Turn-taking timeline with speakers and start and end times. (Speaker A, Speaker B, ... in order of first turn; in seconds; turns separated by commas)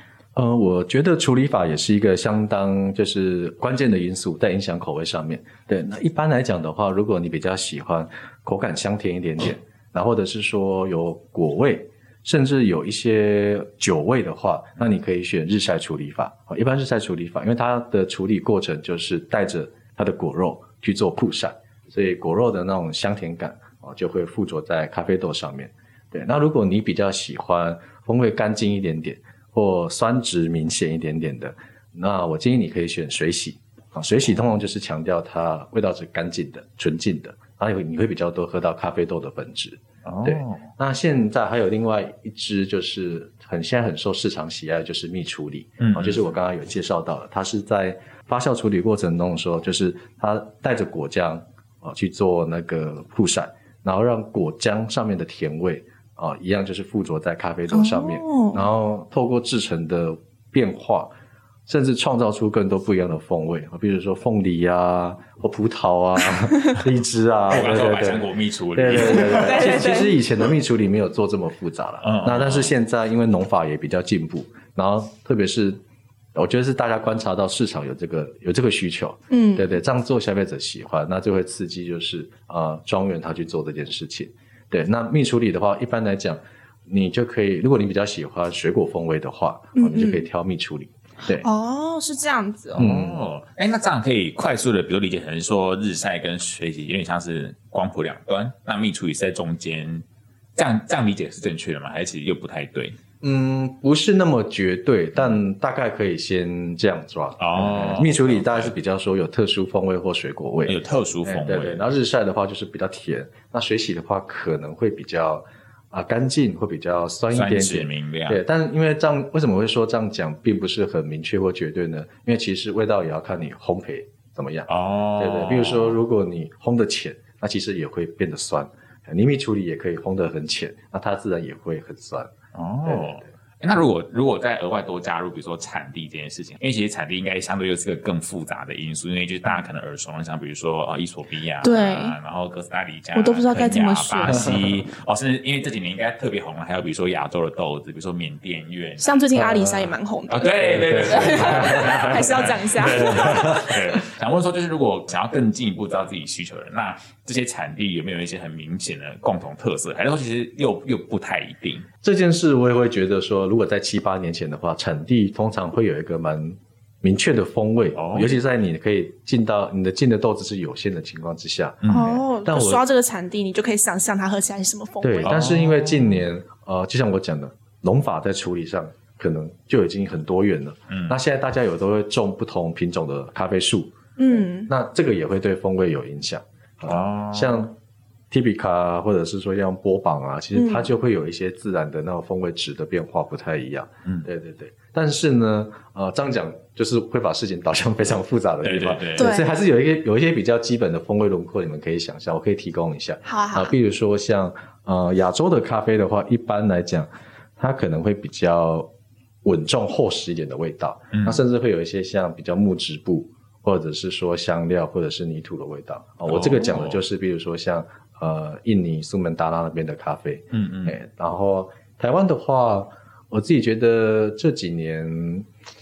Speaker A: 0.3-61.1, Speaker B: 40.0-40.6, Speaker B: 45.8-46.2, Speaker C: 57.7-58.6, Speaker A: 61.7-75.8, Speaker B: 67.5-69.9, Speaker C: 69.0-70.1, Speaker B: 72.0-72.7, Speaker A: 76.3-91.5, Speaker C: 79.3-79.7, Speaker C: 89.8-90.2, Speaker C: 91.4-92.8, Speaker B: 92.8-100.0, Speaker A: 92.8-93.2, Speaker B: 100.6-103.0, Speaker A: 103.2-132.3, Speaker B: 107.4-108.7, Speaker B: 110.7-111.8, Speaker B: 117.3-118.4, Speaker B: 124.7-126.0, Speaker B: 132.6-149.1, Speaker A: 132.9-133.2, Speaker C: 141.6-142.2, Speaker C: 143.2-144.5, Speaker A: 144.3-144.6, Speaker C: 149.0-153.9, Speaker A: 149.3-149.9, Speaker B: 150.3-161.9, Speaker A: 150.6-152.2, Speaker A: 152.9-153.7, Speaker A: 162.0-172.8, Speaker B: 168.0-168.3, Speaker C: 171.9-175.5, Speaker A: 175.0-187.7, Speaker B: 175.2-176.2, Speaker B: 180.9-181.2, Speaker C: 184.2-184.7, Speaker B: 186.9-187.6, Speaker A: 188.3-208.9, Speaker C: 190.5-190.9, Speaker B: 198.6-199.3, Speaker C: 199.2-199.5, Speaker C: 203.2-203.8, Speaker A: 209.4-225.5, Speaker B: 211.1-211.4, Speaker B: 216.3-217.0, Speaker B: 220.5-220.9